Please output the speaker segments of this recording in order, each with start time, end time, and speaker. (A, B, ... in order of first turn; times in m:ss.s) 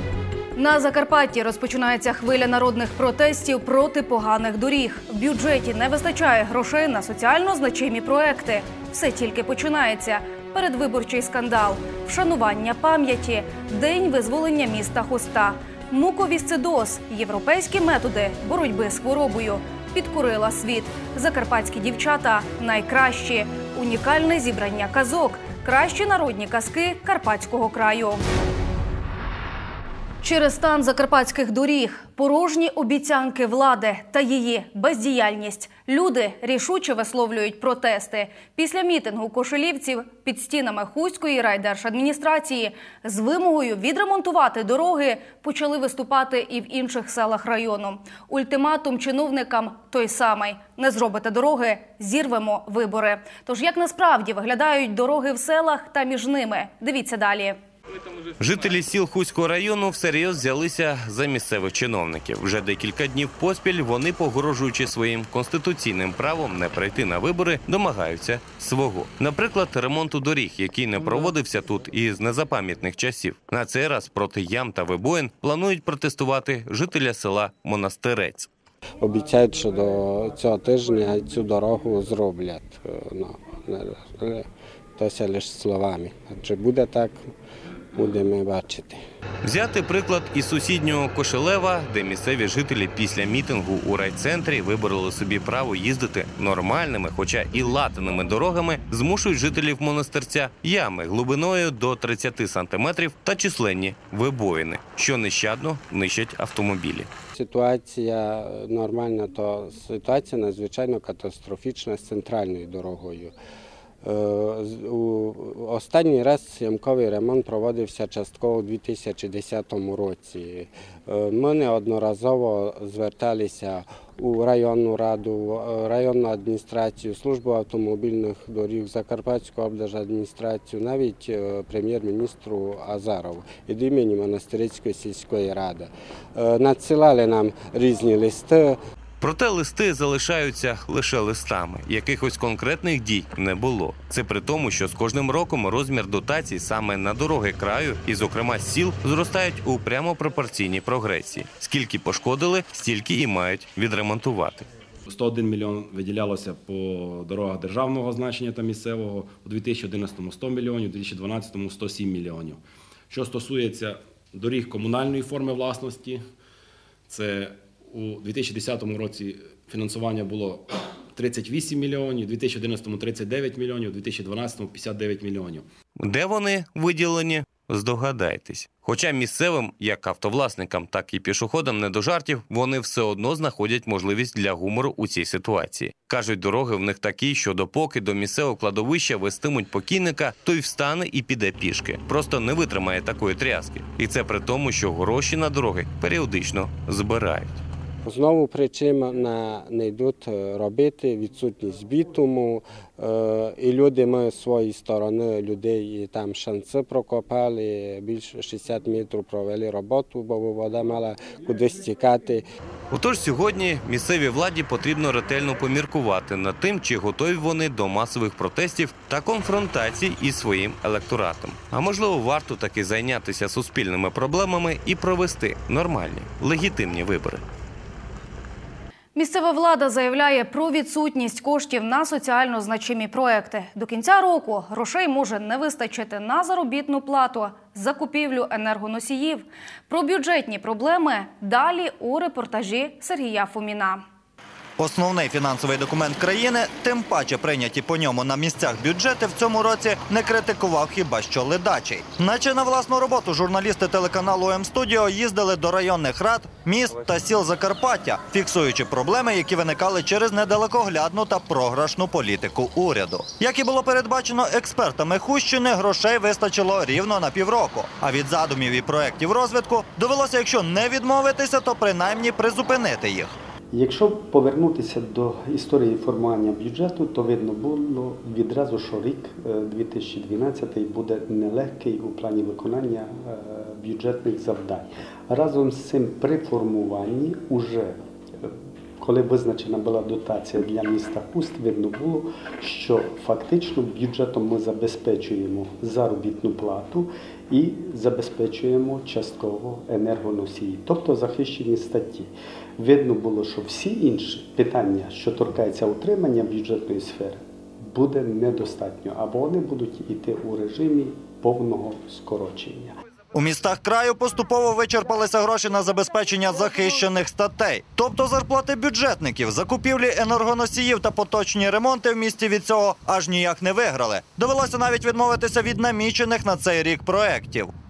0:00.6-0:28.2 A
0:30.2-0:57.6 A
0:58.4-1:18.5 B
1:19.0-1:24.5 C
1:25.0-1:27.3 C
1:28.0-1:29.0 C
1:29.4-1:47.1 B
1:47.3-1:53.3 C
1:54.0-2:18.8 C
2:19.2-2:34.7 B
2:35.1-2:46.3 D
2:47.1-2:55.7 D
2:56.0-3:17.6 B
3:18.0-3:32.4 C
3:32.9-3:47.4 B
3:49.2-4:04.0 A
4:04.8-4:33.4 E
4:33.7-5:13.0 F
5:13.3-5:27.7 E